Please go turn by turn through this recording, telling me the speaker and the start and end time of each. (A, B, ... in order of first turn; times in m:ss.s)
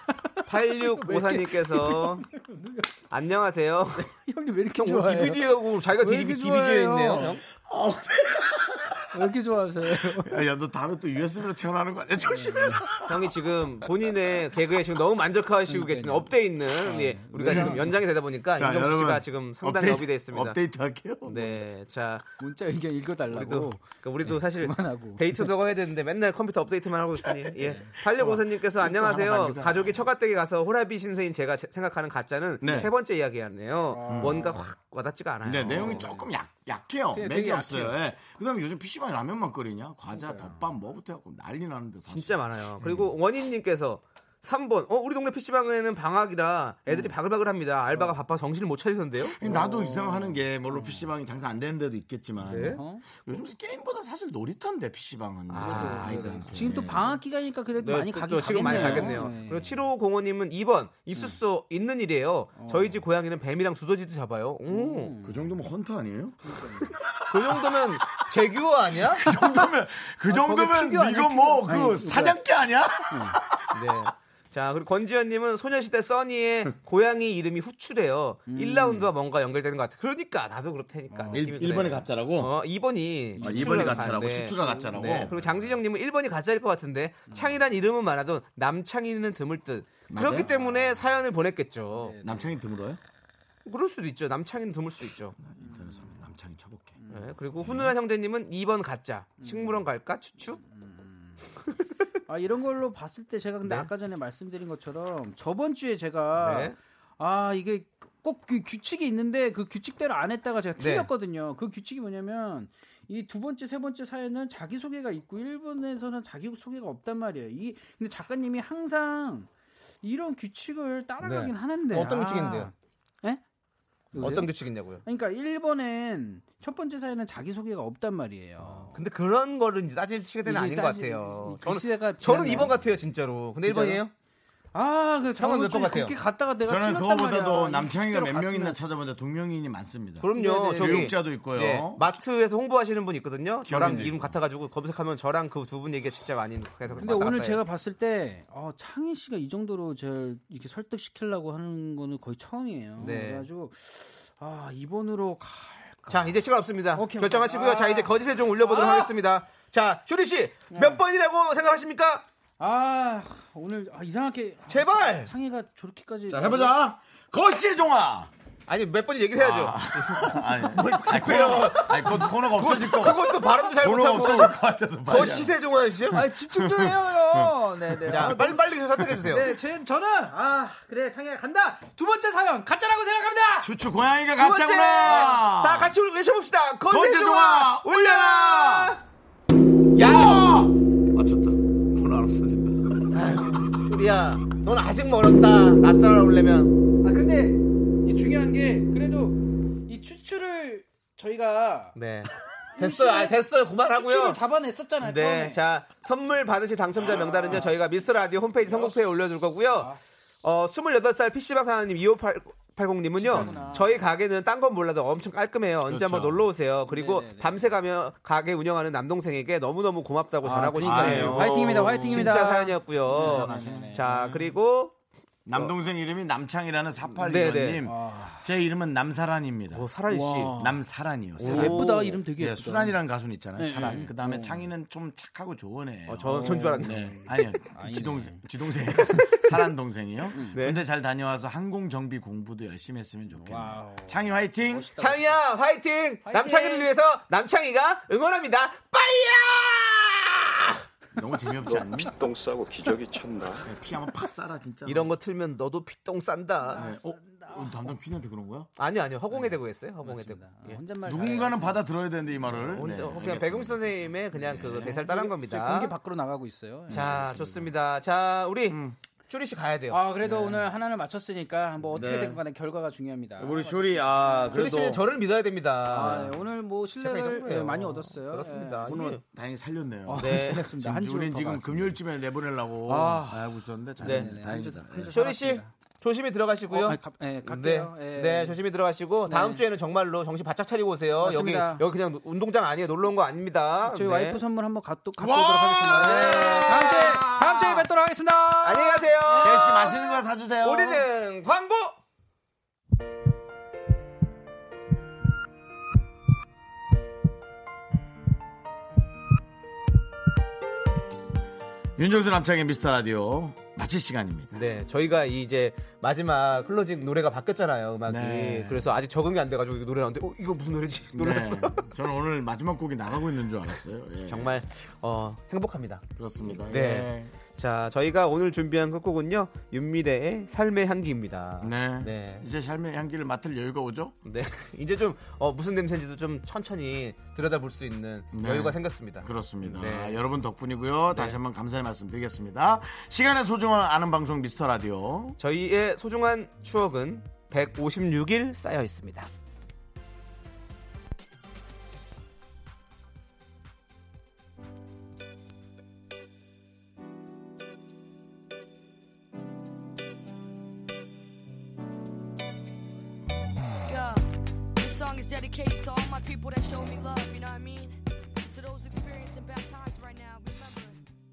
0:00.4-0:02.2 A
0:00.5-0:02.9 B
0:03.1-0:04.1 A
0:04.0-0:07.4 B
0:04.8-0:07.4 A
0:07.5-0:09.3 C
0:09.1-0:10.4 B
0:09.9-0:13.2 C
0:12.2-0:12.9 B
0:13.0-0:20.6 A
0:15.7-0:18.0 B
0:17.4-0:18.0 C
0:18.5-0:21.4 C
0:21.2-0:22.3 A
0:21.3-0:21.6 B
0:22.4-0:25.5 B
0:23.3-0:36.1 A
0:27.2-0:30.0 C
0:32.6-0:32.9 C
0:33.9-0:34.7 B
0:34.1-0:34.6 C
0:35.4-0:43.1 C
0:35.6-0:36.3 B
0:37.1-0:38.0 B
0:40.1-0:40.6 B
0:42.1-0:49.4 A
0:46.9-0:47.1 B
0:49.2-0:57.2 C
0:49.4-0:51.1 B
0:52.4-0:52.8 A
0:52.5-0:53.0 B
0:55.5-0:56.5 A
0:55.6-0:59.9 B
0:57.8-1:05.1 A
0:58.6-0:59.1 C
1:02.5-1:03.0 B
1:04.7-1:05.5 B
1:05.2-1:07.9 C
1:06.4-1:06.9 B
1:07.3-1:09.3 A
1:08.9-1:13.4 C
1:10.3-1:12.4 B
1:13.1-1:13.4 B
1:13.7-1:32.2 A
1:18.5-1:19.1 B
1:21.1-1:21.6 B
1:21.3-1:22.5 C
1:23.4-1:25.2 B
1:23.4-1:25.8 C
1:27.3-1:27.6 B
1:30.1-1:30.6 C
1:31.9-1:32.5 B
1:32.2-1:33.0 C
1:33.6-1:35.4 A
1:35.4-1:37.0 C
1:35.6-1:36.2 B
1:37.0-1:37.3 B
1:37.1-1:40.6 A
1:37.6-1:37.9 C
1:39.4-1:39.8 B
1:40.6-1:41.5 B
1:42.3-1:59.5 B
1:46.4-1:46.7 A
1:50.8-1:51.1 A
2:00.0-2:03.4 B
2:01.2-2:02.7 A
2:04.1-2:09.0 B
2:04.2-2:05.0 A
2:08.9-2:14.1 A
2:10.4-2:12.9 B
2:13.6-2:14.0 B
2:14.7-2:18.8 B
2:15.4-2:16.2 A
2:16.7-2:22.1 C
2:20.2-2:27.6 A
2:20.3-2:21.2 B
2:23.7-2:24.4 C
2:23.7-2:24.1 B
2:26.9-2:27.2 C
2:27.0-2:39.1 B
2:33.0-2:33.4 A
2:36.1-2:42.2 A
2:40.7-2:41.0 B
2:42.6-2:46.7 B
2:44.7-2:45.3 A
2:46.3-2:48.3 C
2:48.7-2:56.2 A
2:49.4-2:55.5 C
2:56.1-2:58.7 B
2:56.4-2:58.4 C
2:58.1-2:59.5 A
2:59.0-2:59.3 C
2:59.2-3:03.7 B
3:03.6-3:06.0 C
3:04.4-3:09.0 A
3:05.0-3:05.3 B
3:06.9-3:09.0 C
3:09.9-3:10.7 A
3:10.0-3:13.7 C
3:13.1-3:16.7 A
3:17.0-3:21.9 B
3:21.9-3:24.4 A
3:22.7-3:25.6 B
3:25.0-3:29.9 A
3:27.0-3:27.9 B
3:28.6-3:30.0 B
3:30.4-3:44.9 A
3:33.1-3:34.0 B
3:33.3-3:33.8 C
3:35.8-3:36.5 C
3:36.8-3:37.8 B
3:40.4-3:44.6 B
3:40.8-3:42.5 C
3:43.1-3:43.9 C
3:45.4-3:49.9 C
3:47.2-3:47.8 A
3:47.8-3:48.5 B
3:49.7-3:50.6 A
3:50.1-3:50.8 B
3:50.5-4:04.9 C
3:51.4-3:52.2 A
3:51.4-3:53.0 B
3:53.6-3:54.7 B
3:53.8-3:54.1 A
3:56.1-3:57.0 A
3:56.2-3:58.4 B
3:59.0-3:59.5 A
4:00.3-4:00.6 B
4:00.5-4:00.8 A
4:03.3-4:05.4 B
4:05.0-4:10.8 A
4:06.2-4:06.9 B
4:11.1-4:12.1 C
4:11.6-4:13.7 D
4:13.6-4:15.1 C
4:14.8-4:16.9 A
4:16.6-4:17.8 B
4:16.7-4:18.7 C
4:18.8-4:20.8 A
4:19.3-4:21.8 B
4:21.0-4:25.0 C
4:22.7-4:25.9 A
4:24.5-4:27.7 B
4:26.9-4:27.4 C
4:26.9-4:30.0 A
4:28.7-4:29.0 C
4:29.9-4:34.9 B
4:30.2-4:30.6 C
4:31.9-4:32.4 C
4:33.4-4:35.0 C
4:34.5-4:36.4 A
4:35.9-4:39.0 B
4:37.0-4:39.2 A
4:38.8-4:45.2 C
4:40.1-4:42.0 B
4:40.2-4:40.6 A
4:42.8-4:45.7 B
4:44.0-4:44.3 A
4:45.1-4:54.4 A
4:46.7-4:48.6 B
4:49.3-4:49.6 B
4:51.2-4:51.8 B
4:53.8-5:00.1 B
4:55.2-4:57.9 C
4:55.9-4:57.0 A
4:58.6-5:00.1 A
4:59.4-5:01.0 C
5:00.6-5:02.0 A
5:12.0-5:14.6 C
5:14.5-5:21.8 A
5:18.1-5:18.9 C
5:21.1-5:24.5 C
5:24.3-5:26.0 A
5:26.2-5:27.3 C
5:26.6-5:32.4 A
5:31.6-5:34.1 C
5:34.2-5:40.2 A
5:38.3-5:45.4 C
5:41.1-5:41.4 A
5:45.4-5:49.3 A
6:03.8-6:11.1 E